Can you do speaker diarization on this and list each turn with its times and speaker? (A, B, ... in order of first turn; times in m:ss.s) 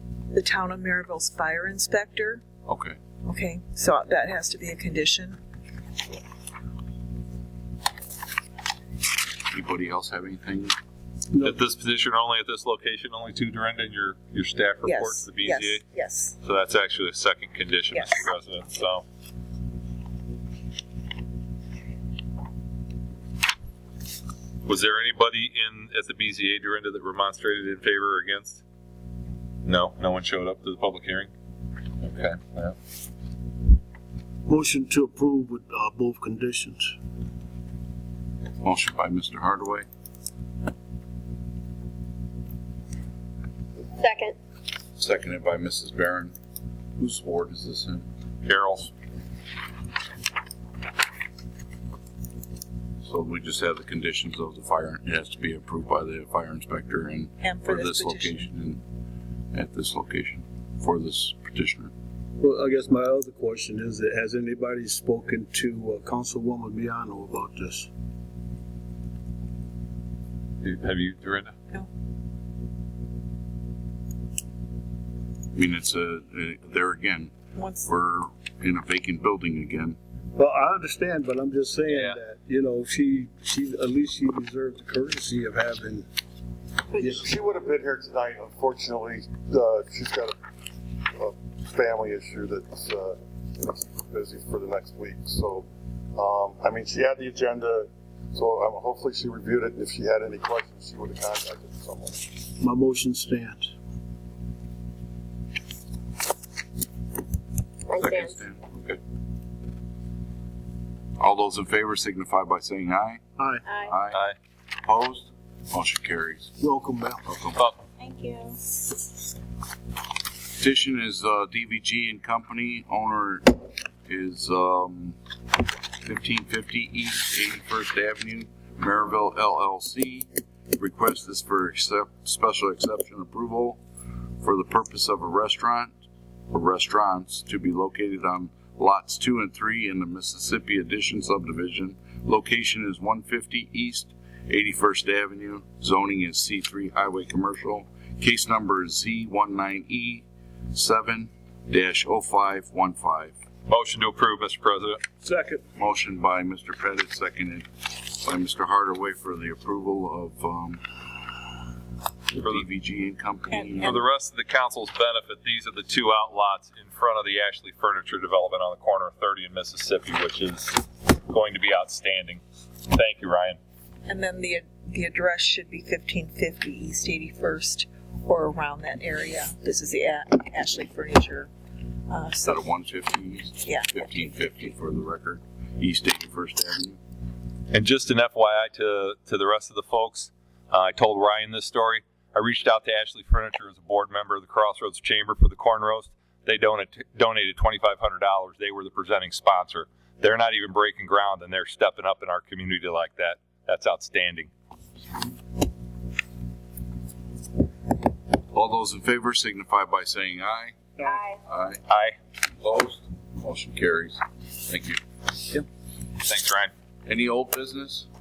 0:00.3-0:02.4 A
0:02.6-0:03.0 B
0:03.2-0:05.4 A
0:09.5-0:10.7 B
0:11.4-0:15.8 C
0:14.8-0:16.4 A
0:16.4-0:19.0 C
0:17.9-0:18.3 A
0:24.6-0:28.6 C
0:29.6-0:31.3 C
0:32.0-0:32.7 C
0:34.5-0:36.9 D
0:38.6-0:39.8 B
0:44.0-0:44.4 E
0:45.0-0:46.3 B
0:47.0-0:48.0 B
0:48.4-0:48.9 C
0:53.0-0:58.8 B
0:57.4-0:58.5 A
0:59.5-1:01.9 B
1:02.4-1:07.9 D
1:10.6-1:11.5 C
1:15.5-1:17.3 B
1:17.5-1:17.9 A
1:17.8-1:20.0 B
1:20.4-1:26.0 D
1:21.9-1:22.2 C
1:27.0-1:27.3 D
1:27.0-1:30.4 F
1:31.1-1:42.2 F
1:42.6-1:43.7 D
1:47.9-1:48.4 E
1:47.9-1:49.0 B
1:51.2-1:53.2 B
1:53.4-1:53.6 D
1:53.7-1:53.9 E
1:53.8-1:54.3 B
1:54.8-1:56.5 B
1:56.6-1:57.2 D
1:57.2-1:57.6 B
1:57.6-1:57.8 C
1:58.0-1:58.6 E
2:00.6-2:05.2 B
2:06.0-2:13.8 B
2:14.4-2:16.0 B
2:16.5-2:33.3 B
2:33.7-2:35.0 C
2:35.2-2:35.6 D
2:35.8-2:40.8 B
2:42.3-2:42.6 C
2:42.3-2:44.0 B
2:43.5-2:44.0 A
2:43.8-2:53.6 C
2:54.0-3:01.5 A
3:02.1-3:02.7 A
3:02.4-3:07.0 B
3:03.6-3:04.4 A
3:07.7-3:24.5 C
3:28.5-3:31.8 B
3:31.0-3:31.4 E
3:31.9-3:32.2 C
3:32.6-3:35.0 B
3:36.2-3:36.7 C
3:37.0-3:38.1 B